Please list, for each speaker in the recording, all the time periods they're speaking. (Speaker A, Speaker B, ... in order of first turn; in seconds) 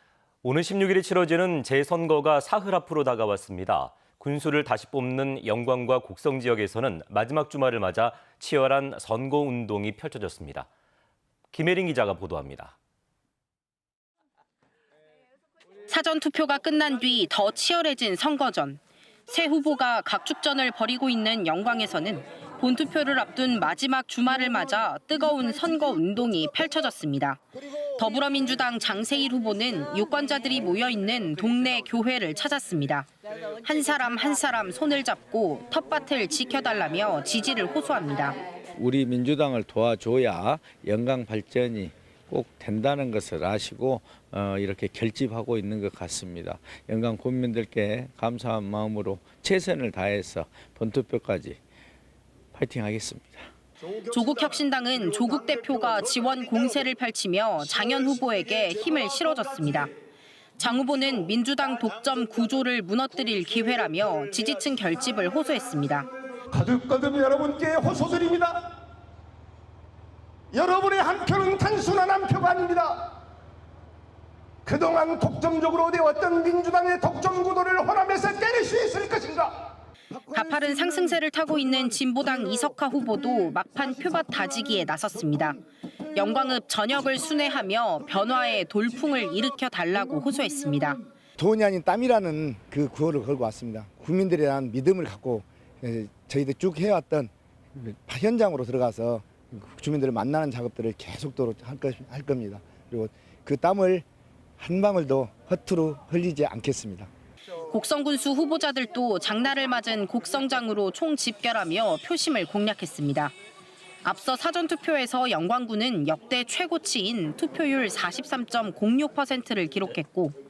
Speaker A: 0.4-10.7, 11.5-12.7
Speaker B: 15.9-33.1, 33.6-38.4, 54.0-59.9, 60.6-66.1, 80.2-85.6, 86.1-91.0, 107.7-113.3, 114.0-120.4
Speaker C: 38.8-51.6, 52.5-53.5
Speaker D: 66.5-68.6, 70.5-73.1, 74.7-79.6
Speaker E: 91.4-104.0, 104.6-107.1